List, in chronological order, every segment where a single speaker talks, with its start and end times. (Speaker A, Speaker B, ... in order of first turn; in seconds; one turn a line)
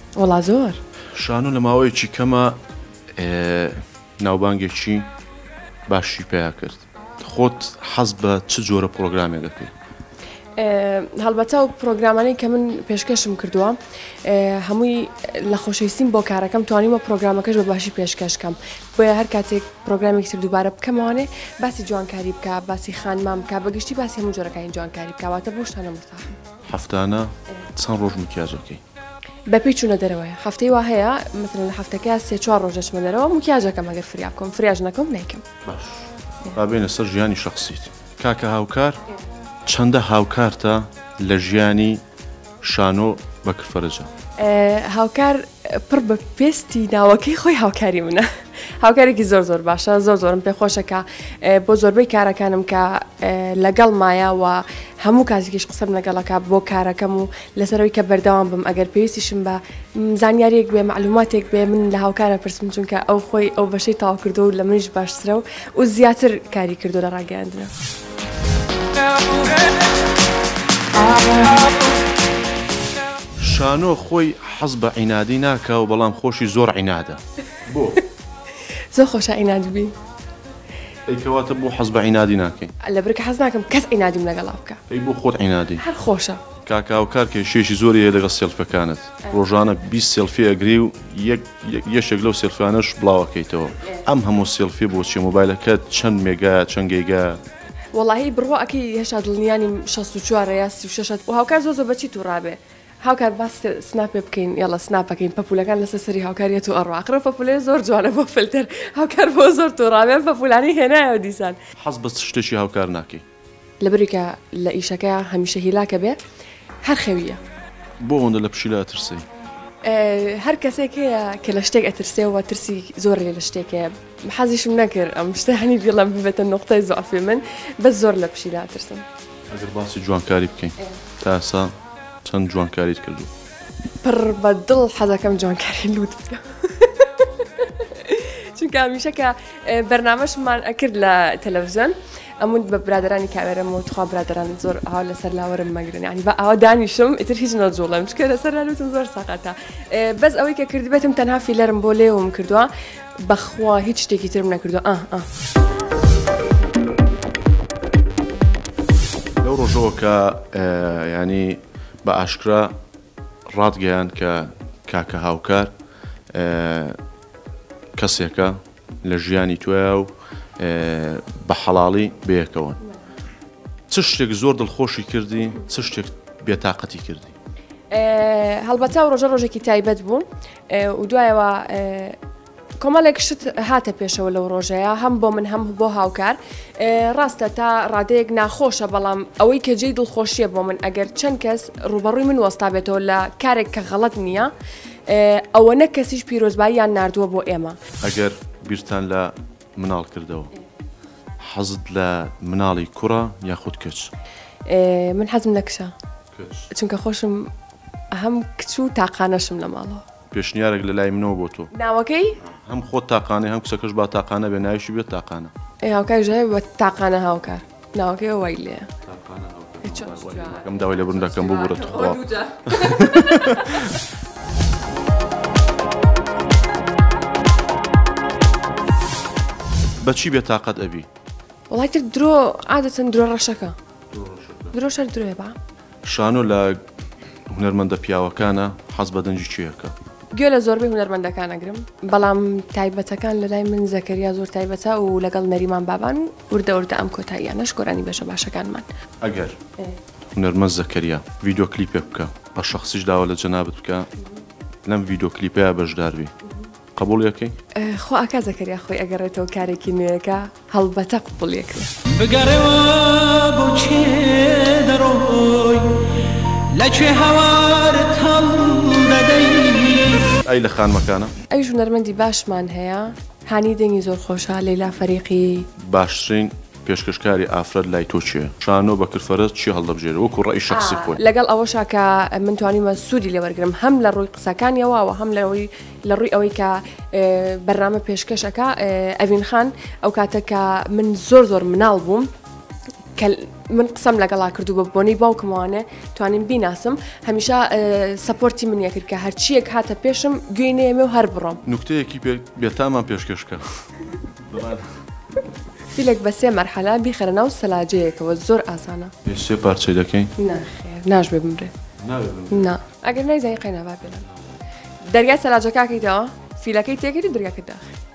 Speaker A: 0.1-0.8
Speaker B: 1.1-2.6
Speaker B: 3.1-5.1
Speaker B: 5.9-9.7
Speaker A: 10.6-26.4
Speaker B: 26.7-28.8
Speaker A: 29.5-35.4
Speaker B: 35.6-39.0
Speaker B: 39.7-42.0
Speaker B: 42.6-44.1
Speaker A: 44.4-48.3
Speaker A: 48.8-67.7
Speaker B: 73.4-78.0
Speaker A: 78.9-79.9
Speaker B: 81.0-82.7
Speaker A: 82.8-84.8
Speaker B: 84.9-85.8
Speaker A: 85.8-86.4
Speaker B: 86.6-97.4
Speaker A: 97.9-111.6
Speaker B: 111.8-113.2
Speaker A: 113.8-116.2
Speaker A: 116.8-117.4
Speaker B: 118.0-119.2
Speaker A: 119.8-129.0
Speaker B: 129.5-133.3
Speaker A: 134.0-155.2
Speaker B: 159.4-162.7
Speaker B: 163.5-165.7
Speaker B: 166.3-167.0
Speaker B: 167.9-172.8
Speaker B: 173.9-177.3
Speaker A: 177.9-182.2
Speaker A: 182.8-194.5
Speaker A: 195.1-197.8
Speaker B: 198.0-200.5
Speaker B: 201.4-204.1
Speaker A: 204.7-205.9
Speaker B: 206.3-206.7
Speaker A: 206.7-207.5
Speaker A: 208.1-210.0
Speaker B: 210.3-211.7
Speaker A: 211.7-212.4
Speaker B: 212.4-215.5
Speaker A: 215.8-218.9
Speaker B: 219.0-224.0
Speaker A: 219.8-223.9
Speaker B: 230.0-231.1
Speaker A: 231.7-233.8
Speaker B: 234.1-234.8
Speaker A: 234.7-235.5
Speaker B: 236.0-236.8
Speaker B: 237.5-239.9
Speaker A: 240.3-248.9
Speaker B: 249.2-249.6
Speaker B: 250.3-254.1
Speaker B: 254.8-256.3
Speaker B: 256.9-257.6
Speaker A: 257.7-261.9
Speaker C: 262.1-270.3
Speaker B: 270.4-271.3
Speaker A: 271.5-275.7
Speaker B: 275.8-281.2
Speaker A: 280.7-292.3
Speaker A: 293.1-301.6
Speaker B: 301.6-305.0
Speaker A: 305.9-309.1
Speaker B: 309.2-310.3
Speaker A: 310.4-311.7
Speaker B: 312.0-312.7
Speaker A: 312.5-314.3
Speaker A: 315.1-317.9